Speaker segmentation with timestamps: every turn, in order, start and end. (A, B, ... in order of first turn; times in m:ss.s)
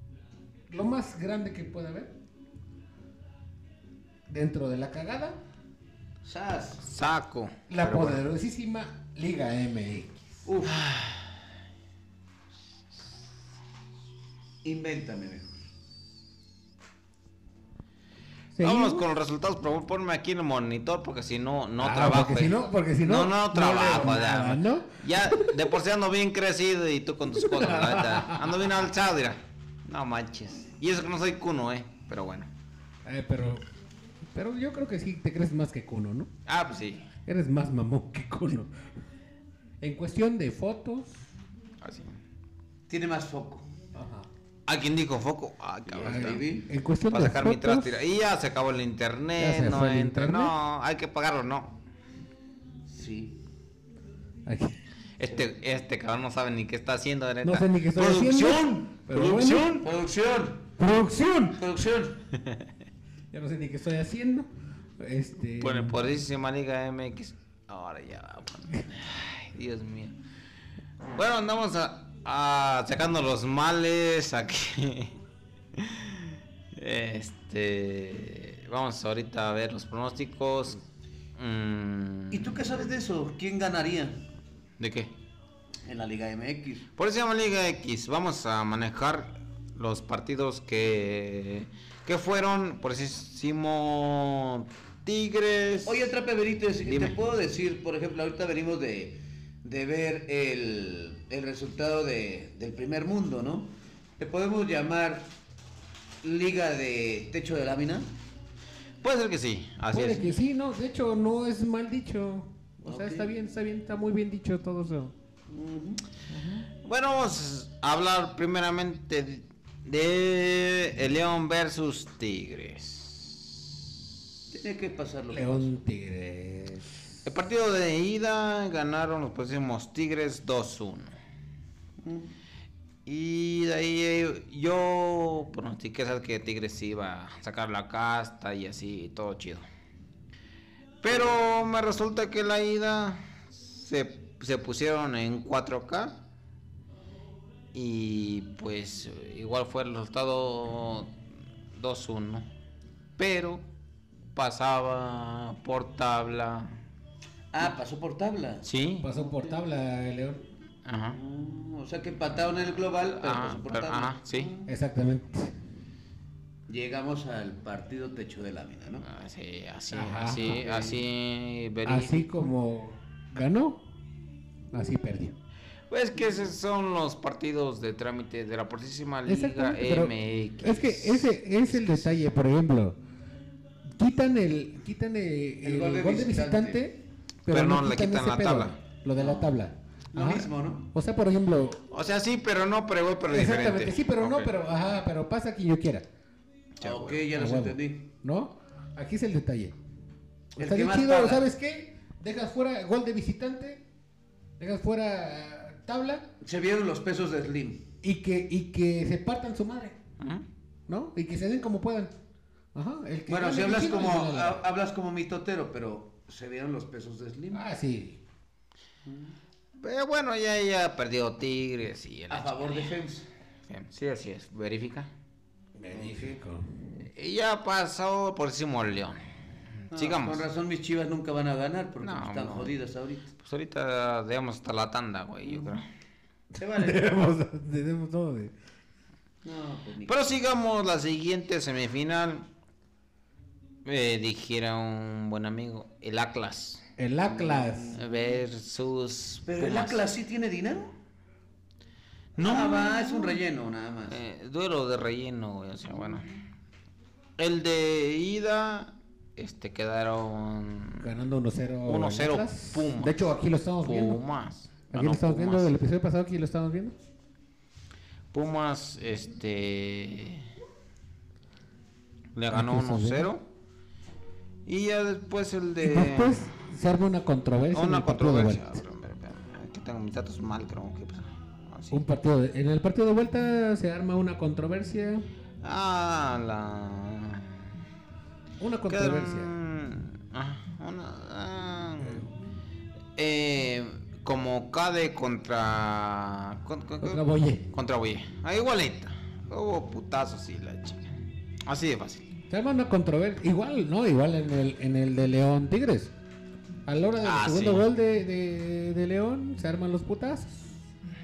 0:00.7-0:02.2 A
0:04.3-0:05.4 A
0:06.2-0:06.8 B
0:06.8-0:08.2 C
0:07.7-0:10.4 A
0:10.5-0:10.8 B
0:10.6-0:11.4 C
0:14.6-0:15.6 B
0:18.5-0:19.0 A
0:18.6-0:32.5 C
0:21.8-0:25.6 A
0:27.3-0:28.7 A
0:33.0-0:33.6 A
0:34.3-0:36.3 A
0:36.5-0:37.1 C
0:37.3-0:38.7 A
0:39.8-0:41.2 A
0:41.8-0:42.2 C
0:42.9-0:43.7 B
0:44.0-0:44.3 A
0:44.7-0:46.5 C
0:45.9-0:46.7 B
0:46.0-0:48.0 A
0:47.1-0:51.8 C
0:49.4-0:50.5 A
0:52.9-0:53.4 B
0:54.5-0:54.8 A
0:55.2-0:59.9 C
0:57.4-0:59.8 A
0:59.8-1:00.7 B
1:00.8-1:01.6 A
1:01.6-1:02.2 B
1:02.4-1:02.7 C
1:03.3-1:04.5 A
1:05.0-1:06.0 A
1:05.6-1:10.2 C
1:11.1-1:15.2 C
1:15.8-1:20.8 C
1:21.4-1:22.6 C
1:22.3-1:24.2 B
1:24.8-1:25.1 C
1:25.8-1:26.9 B
1:27.0-1:36.1 C
1:35.8-1:45.3 B
1:36.8-1:37.2 C
1:46.2-1:48.1 B
1:49.0-1:50.4 C
1:49.9-1:55.1 A
1:52.8-1:53.3 B
1:55.5-1:56.0 B
1:56.3-1:56.7 A
1:56.8-2:03.6 C
2:04.5-2:05.7 B
2:05.3-2:07.2 A
2:07.2-2:11.2 C
2:12.0-2:12.3 B
2:13.1-2:19.6 C
2:21.0-2:26.2 C
2:21.1-2:21.3 B
2:27.7-2:31.1 C
2:31.7-2:32.5 C
2:33.2-2:33.6 C
2:34.3-2:36.8 C
2:37.5-2:38.7 B
2:38.6-2:39.1 C
2:39.0-2:40.4 A
2:40.9-2:41.2 C
2:41.1-2:44.7 B
2:42.9-2:44.6 C
2:44.7-2:45.5 A
2:46.7-2:49.1 B
2:49.0-2:52.3 C
2:49.9-2:51.0 A
2:51.8-2:53.8 A
2:54.7-2:55.4 A
2:55.9-3:02.2 C
2:59.3-3:03.0 A
3:03.9-3:11.8 A
3:05.6-3:06.8 B
3:07.5-3:08.8 C
3:09.2-3:09.5 B
3:10.1-3:10.9 B
3:11.9-3:14.5 C
3:13.3-3:16.1 A
3:16.8-3:17.2 C
3:16.8-3:18.1 B
3:17.3-3:19.8 A
3:20.6-3:23.8 A
3:20.6-3:21.4 B
3:24.6-3:26.3 A
3:26.4-3:27.8 B
3:28.0-3:30.0 A
3:30.2-3:30.5 C
3:30.9-3:32.1 A
3:32.7-3:34.6 A
3:33.3-3:37.6 B
3:37.5-3:38.2 A
3:39.0-3:39.4 B
3:39.8-3:43.0 C
3:42.3-3:43.3 B
3:43.7-3:45.1 C
3:45.8-3:46.7 A
3:46.0-3:46.3 B
3:47.0-3:49.2 C
3:49.9-3:50.4 C
3:49.9-3:53.3 B
3:52.0-3:52.7 C
3:53.4-3:55.9 C
3:55.5-3:55.8 B
3:56.6-3:57.0 B
3:56.8-3:58.5 A
3:59.4-4:00.2 B
4:00.1-4:02.5 C
4:03.8-4:06.8 C
4:07.0-4:08.0 A
4:07.3-4:08.0 B
4:08.0-4:10.0 C
4:09.5-4:11.0 B
4:12.4-4:13.4 C
4:12.4-4:14.2 B
4:14.1-4:16.3 C
4:16.0-4:16.3 B
4:17.4-4:21.1 C
4:21.0-4:24.2 A
4:21.9-4:23.2 C
4:23.8-4:25.7 C
4:24.9-4:27.0 A
4:28.3-4:30.5 C
4:32.4-4:33.4 C
4:32.5-4:33.3 A
4:34.7-4:36.5 C
4:35.8-4:38.8 A
4:37.7-4:42.0 C
4:41.9-4:45.3 A
4:45.6-4:47.8 C
4:48.6-4:49.5 A
4:48.9-4:52.2 C
4:53.2-5:01.1 C
4:57.0-4:57.7 A
5:01.6-5:02.3 C
5:02.5-5:06.1 A
5:06.9-5:10.7 A
5:07.2-5:07.9 C